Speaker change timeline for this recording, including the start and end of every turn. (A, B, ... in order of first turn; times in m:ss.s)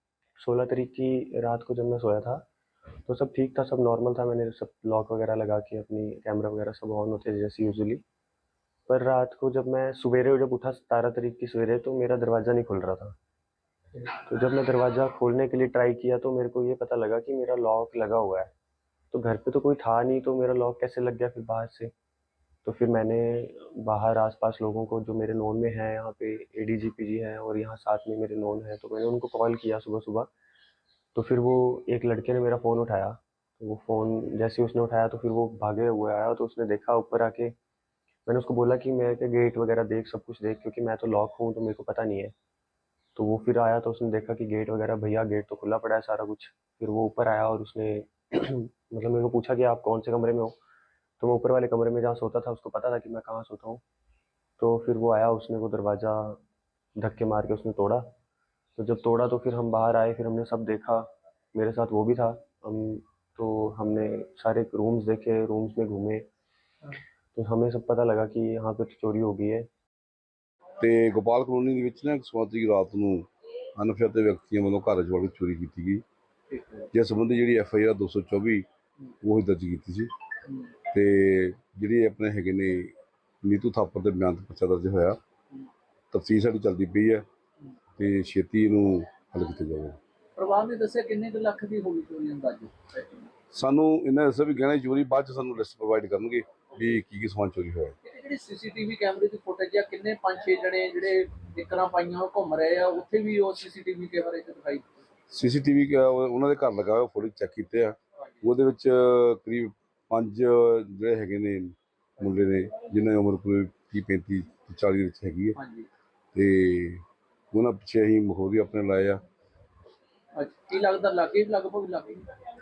0:00.4-0:02.4 A
0:03.0-0:08.0 A
0:08.9-0:13.2 A
0:14.2-0:18.5 A
0:19.1-0:21.9 A
0:22.6-0:30.3 A
0:31.1-0:37.5 A
0:38.2-0:42.3 A
0:43.2-0:50.6 A
0:51.2-0:53.8 A
0:54.6-0:56.4 A
0:57.0-0:58.1 A
0:58.8-1:06.2 A
1:07.3-1:09.7 A
1:10.8-1:16.0 B
1:16.5-1:16.9 C
1:16.9-1:18.6 B
1:19.2-1:20.1 B
1:20.4-1:20.7 C
1:20.9-1:22.9 B
1:23.4-1:25.2 B
1:26.1-1:27.2 B
1:28.0-1:30.0 B
1:30.4-1:33.3 C
1:33.5-1:37.9 B
1:38.0-1:45.0 C
1:45.3-1:55.6 B
1:48.2-1:48.5 C
1:55.6-1:55.9 C
1:56.3-1:59.2 B
2:00.4-2:02.3 C